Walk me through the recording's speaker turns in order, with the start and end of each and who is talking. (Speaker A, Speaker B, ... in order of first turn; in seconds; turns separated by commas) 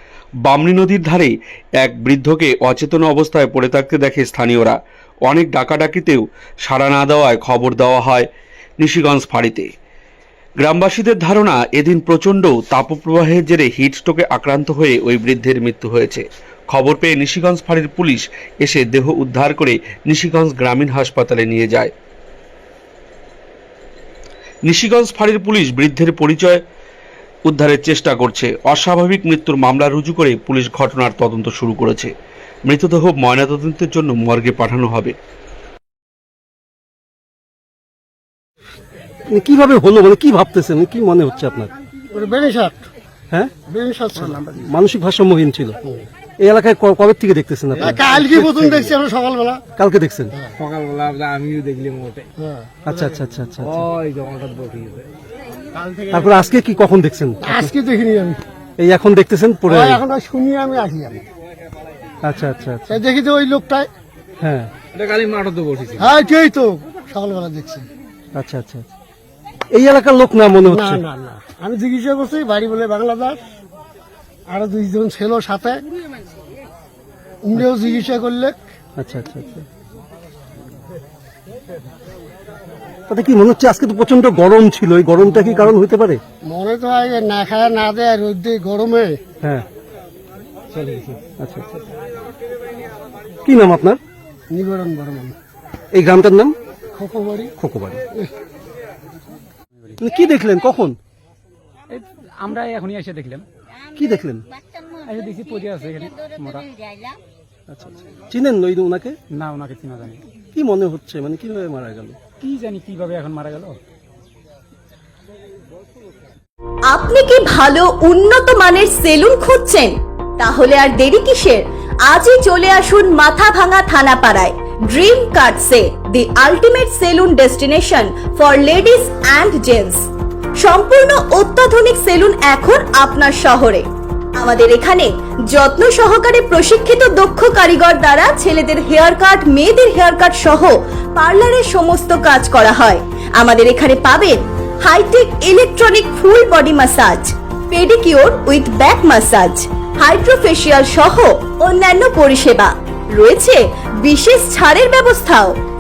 Speaker A: 0.4-8.3, Speaker A: 8.8-9.7, Speaker A: 10.6-21.9, Speaker A: 24.6-26.6, Speaker A: 27.5-32.1, Speaker A: 32.7-35.2, Speaker B: 39.3-41.7, Speaker C: 42.1-42.9, Speaker C: 43.7-44.5, Speaker B: 44.5-45.8, Speaker B: 46.4-48.9, Speaker C: 47.8-49.6, Speaker B: 49.8-50.3, Speaker D: 50.6-52.3, Speaker C: 52.4-52.7, Speaker B: 52.8-53.9, Speaker D: 53.8-55.1, Speaker B: 56.1-57.7, Speaker C: 57.4-58.4, Speaker B: 58.8-60.0, Speaker C: 59.7-61.3, Speaker B: 62.2-63.0, Speaker C: 62.9-63.9, Speaker B: 64.4-64.7, Speaker D: 64.9-66.1, Speaker C: 66.0-67.8, Speaker B: 68.3-68.9, Speaker B: 69.7-71.0, Speaker C: 70.7-73.4, Speaker C: 74.5-75.8, Speaker C: 77.4-78.6, Speaker B: 79.0-79.7, Speaker B: 83.1-86.2, Speaker C: 86.5-89.2, Speaker B: 89.4-89.7, Speaker B: 91.4-91.7, Speaker B: 93.5-94.0, Speaker C: 94.5-95.3, Speaker B: 95.9-96.6, Speaker C: 97.0-97.5, Speaker B: 97.6-98.0, Speaker B: 100.0-101.0, Speaker E: 101.9-103.5, Speaker B: 104.0-104.4, Speaker E: 104.9-106.8, Speaker B: 107.7-109.2, Speaker E: 109.3-110.2, Speaker B: 110.5-112.2, Speaker E: 112.4-113.8, Speaker F: 116.9-155.6